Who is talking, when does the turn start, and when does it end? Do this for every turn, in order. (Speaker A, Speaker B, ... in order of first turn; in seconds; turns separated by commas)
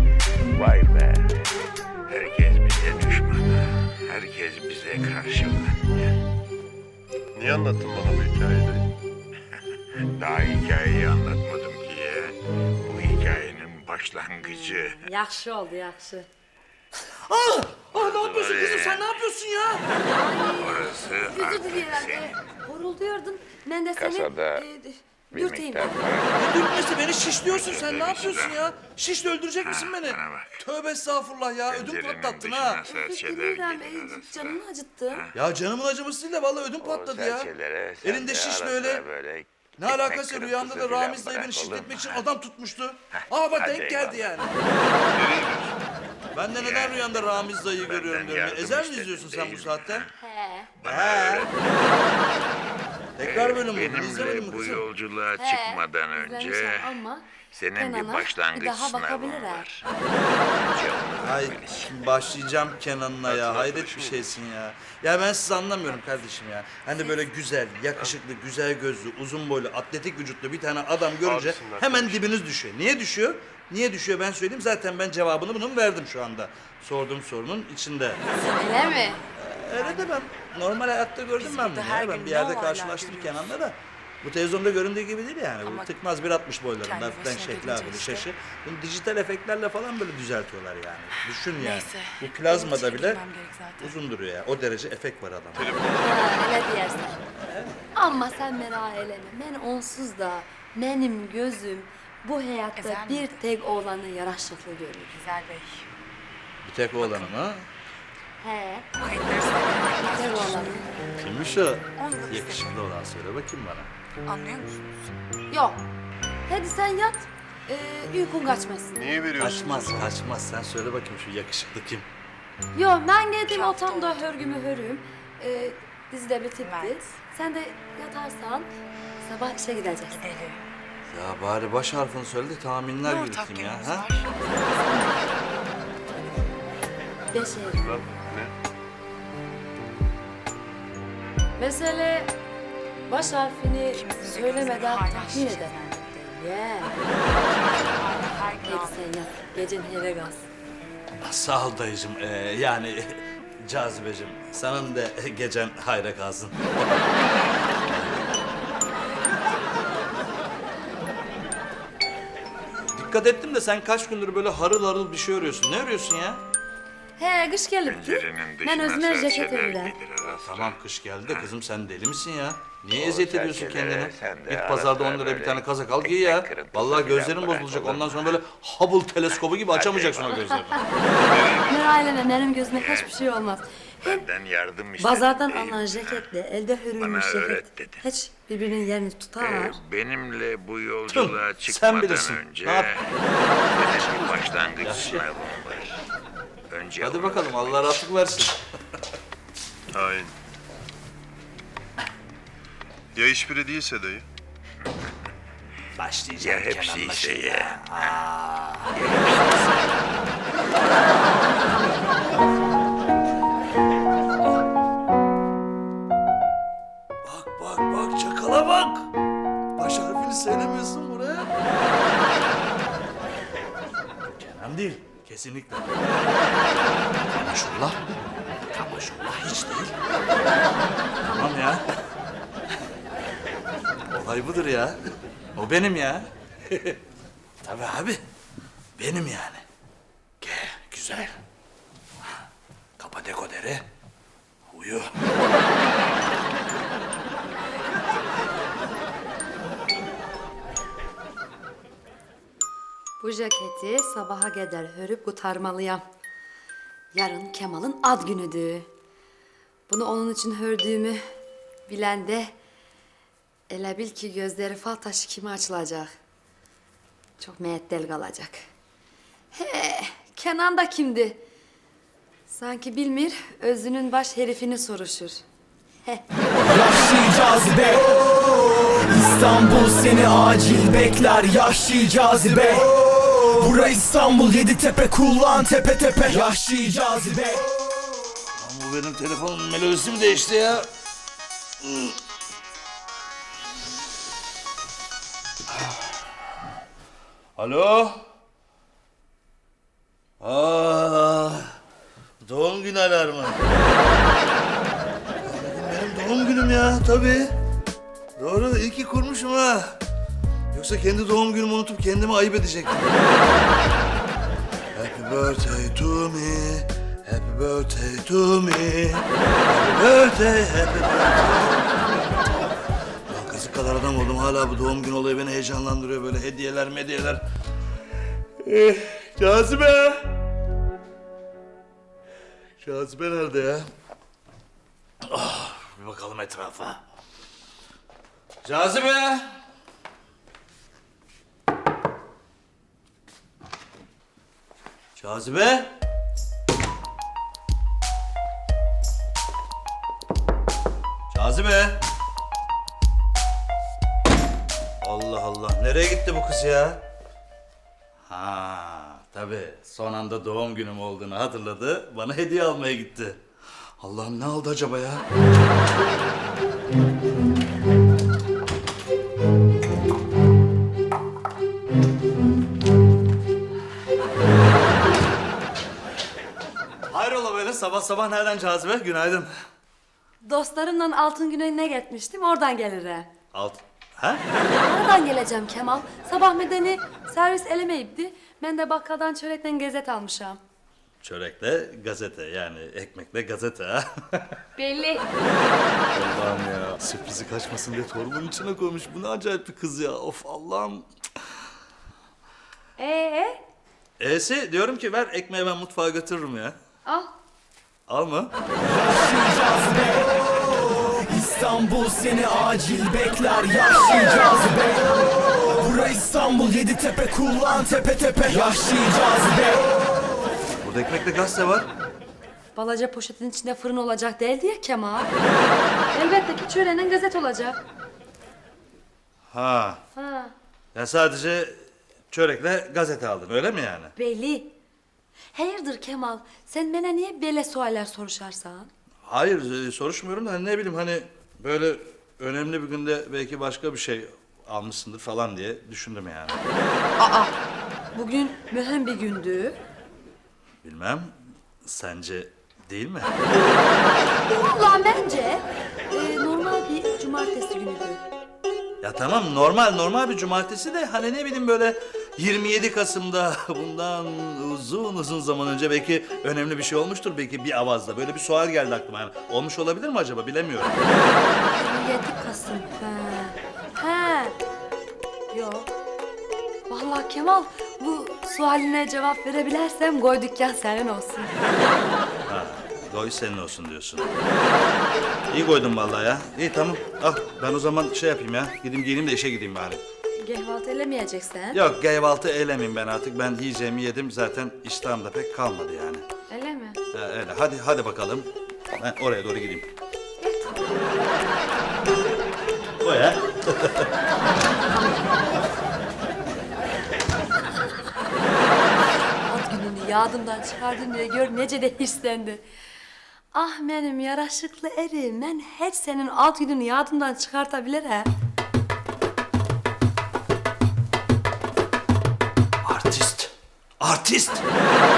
Speaker A: 0.5-1.4, Speaker A: 2.1-6.2, Speaker B: 7.3-8.9, Speaker A: 10.1-15.0, Speaker C: 14.6-16.3, Speaker D: 17.3-19.9, Speaker A: 17.9-19.1, Speaker C: 20.1-26.0, Speaker A: 20.6-22.4, Speaker A: 23.9-24.6, Speaker A: 25.3-26.6, Speaker D: 26.4-32.8, Speaker A: 27.4-28.6, Speaker A: 29.6-30.6, Speaker A: 31.7-34.6, Speaker C: 32.9-35.2, Speaker A: 35.1-35.4, Speaker D: 35.3-37.5, Speaker A: 36.8-42.3, Speaker D: 38.0-39.0, Speaker D: 39.8-44.6, Speaker A: 43.1-44.4, Speaker B: 45.1-45.8, Speaker D: 46.3-50.1, Speaker A: 46.5-50.1, Speaker C: 50.2-50.7, Speaker A: 50.8-52.1, Speaker D: 50.8-51.5, Speaker D: 53.2-54.9, Speaker A: 53.2-56.9, Speaker C: 55.4-59.6, Speaker A: 57.5-59.8, Speaker A: 60.5-61.9, Speaker D: 61.2-78.2, Speaker B: 63.2-64.4, Speaker C: 67.0-67.2, Speaker B: 71.2-72.3, Speaker C: 78.4-79.2, Speaker D: 79.3-93.2, Speaker E: 79.7-80.2, Speaker E: 81.4-83.5, Speaker E: 85.6-86.0, Speaker E: 86.8-88.3, Speaker E: 91.5-94.0, Speaker D: 93.8-95.7, Speaker B: 95.5-96.4, Speaker C: 96.0-97.2, Speaker D: 97.3-97.8, Speaker C: 97.9-105.2, Speaker E: 102.8-103.4, Speaker E: 105.1-105.8, Speaker D: 106.6-107.7, Speaker E: 107.0-107.3, Speaker C: 108.4-108.9, Speaker E: 108.9-110.8, Speaker C: 110.0-110.9, Speaker D: 111.2-113.9, Speaker E: 112.0-112.9, Speaker E: 114.2-115.1, Speaker C: 115.5-115.8, Speaker C: 116.5-119.2, Speaker B: 119.0-120.1, Speaker D: 119.4-122.0, Speaker C: 122.7-128.7, Speaker E: 123.5-124.3, Speaker E: 126.6-127.2, Speaker C: 129.2-130.2, Speaker E: 130.1-130.6, Speaker D: 131.1-134.1, Speaker E: 133.0-135.2, Speaker C: 137.3-138.1, Speaker B: 137.8-138.5, Speaker C: 141.6-142.3, Speaker C: 143.1-147.0, Speaker E: 143.9-146.1, Speaker E: 147.3-149.1, Speaker C: 148.6-150.4, Speaker D: 151.2-157.1, Speaker D: 157.9-158.3, Speaker D: 162.9-166.4, Speaker C: 167.2-169.9, Speaker A: 167.8-171.5, Speaker D: 170.4-180.8, Speaker A: 172.9-178.4, Speaker A: 179.3-180.6, Speaker B: 181.3-181.8, Speaker C: 181.7-184.2, Speaker A: 182.7-183.1, Speaker A: 184.0-186.2, Speaker C: 185.0-189.8, Speaker A: 187.0-188.0, Speaker A: 189.4-193.2, Speaker D: 191.1-192.9, Speaker A: 193.7-196.0, Speaker C: 193.8-194.4, Speaker D: 194.8-195.2, Speaker A: 196.7-197.9, Speaker D: 197.0-198.6, Speaker B: 199.9-200.3, Speaker B: 203.1-204.2, Speaker A: 204.8-205.1, Speaker D: 205.9-208.9, Speaker A: 206.4-208.2, Speaker A: 208.9-209.9, Speaker D: 217.2-219.1, Speaker D: 219.8-221.5, Speaker D: 224.4-226.0, Speaker D: 227.3-228.0, Speaker D: 228.7-229.9, Speaker D: 231.3-231.8, Speaker D: 234.1-235.0, Speaker D: 235.5-237.0, Speaker D: 237.6-238.2, Speaker D: 239.0-239.6, Speaker D: 240.4-241.4, Speaker D: 243.0-243.8, Speaker D: 244.7-245.1, Speaker C: 253.2-256.0, Speaker C: 257.1-258.9, Speaker C: 259.9-261.2, Speaker C: 261.9-262.5, Speaker C: 263.7-266.1, Speaker C: 267.4-268.5, Speaker C: 269.5-271.4, Speaker C: 272.5-275.4, Speaker F: 276.6-278.1, Speaker F: 279.0-282.9, Speaker F: 283.4-287.6, Speaker D: 288.4-290.9, Speaker D: 291.8-292.2, Speaker D: 295.7-296.1, Speaker D: 297.6-298.2, Speaker D: 300.4-301.8, Speaker D: 302.4-303.6, Speaker D: 305.4-307.5, Speaker D: 308.4-310.0, Speaker D: 310.7-313.1, Speaker D: 314.9-321.8, Speaker D: 323.3-327.4, Speaker D: 328.6-330.3, Speaker D: 332.8-333.9, Speaker D: 335.2-337.0, Speaker D: 338.6-339.5, Speaker D: 345.2-345.9, Speaker D: 351.3-352.0, Speaker D: 355.0-357.0, Speaker D: 358.3-363.4, Speaker D: 364.0-365.2, Speaker D: 377.1-379.5, Speaker C: 380.4-383.3, Speaker D: 383.5-384.4, Speaker C: 384.7-390.6, Speaker D: 391.2-394.6, Speaker C: 394.8-395.3, Speaker D: 396.1-401.1, Speaker C: 403.0-403.6, Speaker D: 404.2-406.8, Speaker C: 407.1-407.3, Speaker D: 408.1-408.5, Speaker F: 408.8-410.4, Speaker F: 411.0-419.9, Speaker D: 420.8-421.9, Speaker C: 422.7-425.3, Speaker C: 426.1-427.8, Speaker D: 429.5-430.0, Speaker C: 430.1-430.5, Speaker D: 430.9-431.8, Speaker D: 432.3-434.1, Speaker C: 434.2-434.7, Speaker C: 435.5-438.9, Speaker D: 439.3-446.6, Speaker C: 447.2-447.6, Speaker C: 448.1-449.8, Speaker D: 450.8-451.3, Speaker D: 451.8-453.3, Speaker C: 454.0-458.2, Speaker D: 459.0-471.0, Speaker C: 471.7-474.5, Speaker C: 475.5-475.9, Speaker C: 476.9-481.6, Speaker D: 482.5-484.3, Speaker D: 485.5-490.0, Speaker C: 490.4-491.8, Speaker D: 491.7-496.2, Speaker C: 496.5-497.0, Speaker D: 497.1-499.9, Speaker C: 500.4-500.8, Speaker D: 503.0-504.1, Speaker C: 509.4-512.6, Speaker C: 513.5-518.3, Speaker D: 522.8-524.6